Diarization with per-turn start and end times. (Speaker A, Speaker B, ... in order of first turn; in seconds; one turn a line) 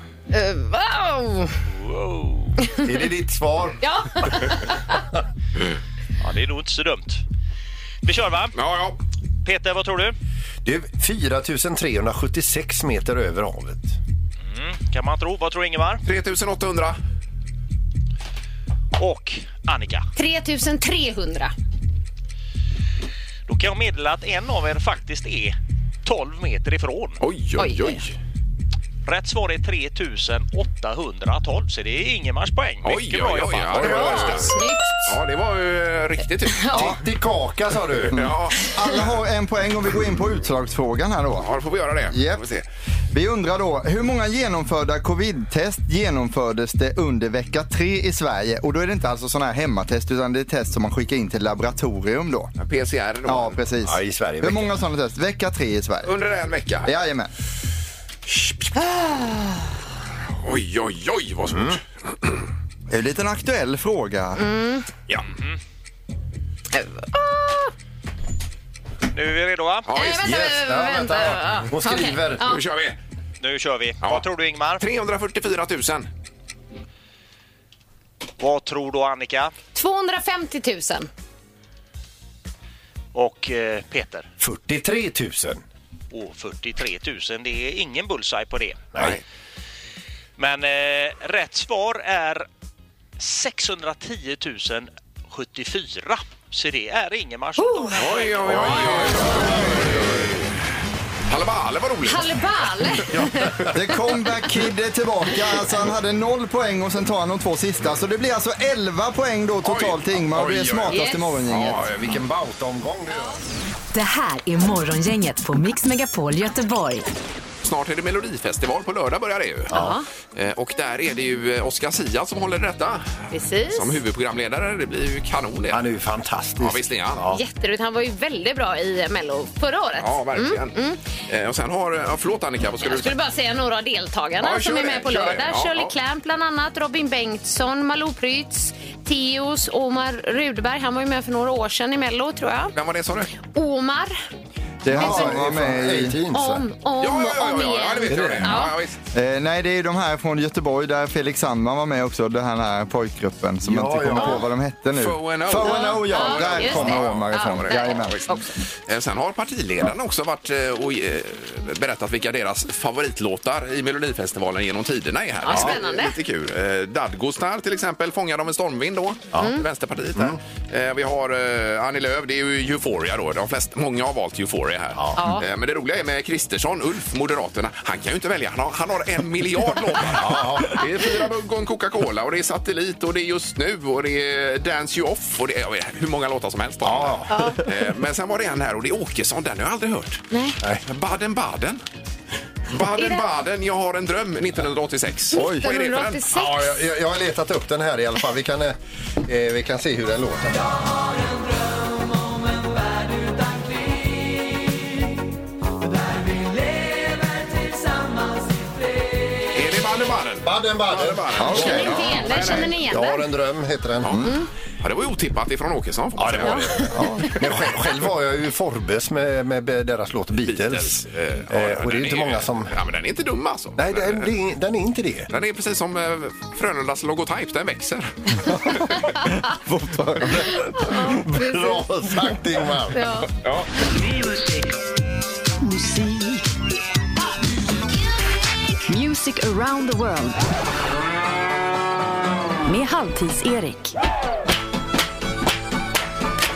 Speaker A: 0.3-1.6
Speaker B: 1.7-2.6
Speaker C: 2.8-3.8
Speaker A: 3.8-5.0
Speaker B: 6.2-7.2
Speaker B: 8.0-8.5
Speaker D: 8.6-9.0
Speaker B: 9.4-10.2
Speaker C: 10.7-14.0
Speaker B: 14.5-16.0
Speaker D: 16.1-17.0
Speaker B: 19.0-20.1
Speaker A: 20.1-21.5
Speaker B: 23.5-27.2
Speaker D: 27.2-28.2
Speaker A: 27.6-28.0
Speaker B: 29.1-34.3
Speaker D: 32.8-36.9
Speaker C: 33.7-34.5
Speaker A: 33.8-35.1
Speaker C: 36.7-38.4
Speaker D: 38.1-38.7
Speaker E: 38.1-41.5
Speaker D: 41.4-42.6
Speaker E: 42.1-42.4
Speaker E: 43.1-52.5
Speaker D: 52.6-53.6
Speaker E: 53.3-56.1
Speaker C: 53.8-54.8
Speaker D: 56.0-56.9
Speaker E: 56.9-57.3
Speaker D: 58.3-58.7
Speaker A: 58.9-59.4
Speaker D: 60.4-62.3
Speaker C: 61.5-61.8
Speaker E: 62.9-64.4
Speaker A: 64.4-64.9
Speaker B: 65.3-65.6
Speaker A: 66.7-67.7
Speaker B: 69.1-69.9
Speaker D: 69.9-70.2
Speaker A: 69.9-72.6
Speaker C: 70.2-72.5
Speaker D: 72.4-73.0
Speaker B: 73.4-74.8
Speaker D: 74.8-76.1
Speaker B: 78.4-79.5
Speaker A: 79.7-81.1
Speaker B: 83.1-84.3
Speaker C: 84.4-85.6
Speaker B: 86.1-88.9
Speaker B: 90.4-92.5
Speaker B: 93.2-99.5
Speaker A: 97.6-98.0
Speaker D: 98.0-100.5
Speaker C: 99.3-100.3
Speaker D: 101.3-102.5
Speaker A: 102.0-103.7
Speaker C: 103.0-103.8
Speaker E: 103.7-111.9
Speaker D: 109.6-110.6
Speaker C: 110.3-111.0
Speaker A: 110.9-111.4
Speaker D: 111.5-112.1
Speaker C: 111.7-113.4
Speaker F: 113.9-117.0
Speaker D: 117.6-119.8
Speaker A: 119.7-120.1
Speaker D: 120.3-123.2
Speaker A: 123.3-124.0
Speaker D: 123.7-125.8
Speaker C: 125.7-127.4
Speaker D: 126.6-127.2
Speaker A: 127.3-131.0
Speaker D: 130.0-130.8
Speaker D: 131.3-133.2
Speaker A: 132.8-142.7
Speaker D: 134.4-135.9
Speaker D: 142.8-143.3
Speaker A: 143.5-144.2
Speaker E: 144.8-146.2
Speaker C: 144.9-146.7
Speaker A: 144.9-145.4
Speaker A: 146.3-148.8
Speaker D: 147.0-149.0
Speaker C: 148.1-148.5
Speaker E: 149.1-158.4
Speaker C: 153.6-154.5
Speaker D: 154.9-158.3
Speaker A: 155.6-158.6
Speaker D: 158.8-190.2
Speaker A: 165.4-166.2
Speaker C: 165.5-165.8
Speaker A: 169.4-169.6
Speaker C: 174.9-175.2
Speaker A: 175.2-175.5
Speaker C: 180.1-180.9
Speaker C: 186.8-187.6
Speaker A: 187.3-187.6
Speaker A: 190.3-190.6
Speaker D: 190.9-191.8
Speaker D: 192.7-196.3
Speaker A: 192.8-193.2
Speaker A: 195.3-196.8
Speaker C: 196.3-200.7
Speaker D: 209.5-212.7
Speaker C: 210.4-214.3
Speaker E: 211.4-212.2
Speaker A: 211.5-213.3
Speaker A: 214.2-214.5
Speaker D: 214.8-216.8
Speaker C: 216.2-222.8
Speaker A: 216.4-216.7
Speaker E: 216.9-217.3
Speaker D: 220.4-224.3
Speaker C: 223.8-225.3
Speaker D: 225.3-228.1
Speaker E: 228.5-230.9
Speaker A: 230.8-231.9
Speaker C: 230.9-233.1
Speaker A: 232.9-233.3
Speaker D: 233.4-233.7
Speaker F: 235.6-236.4
Speaker F: 238.9-240.4
Speaker F: 242.7-243.9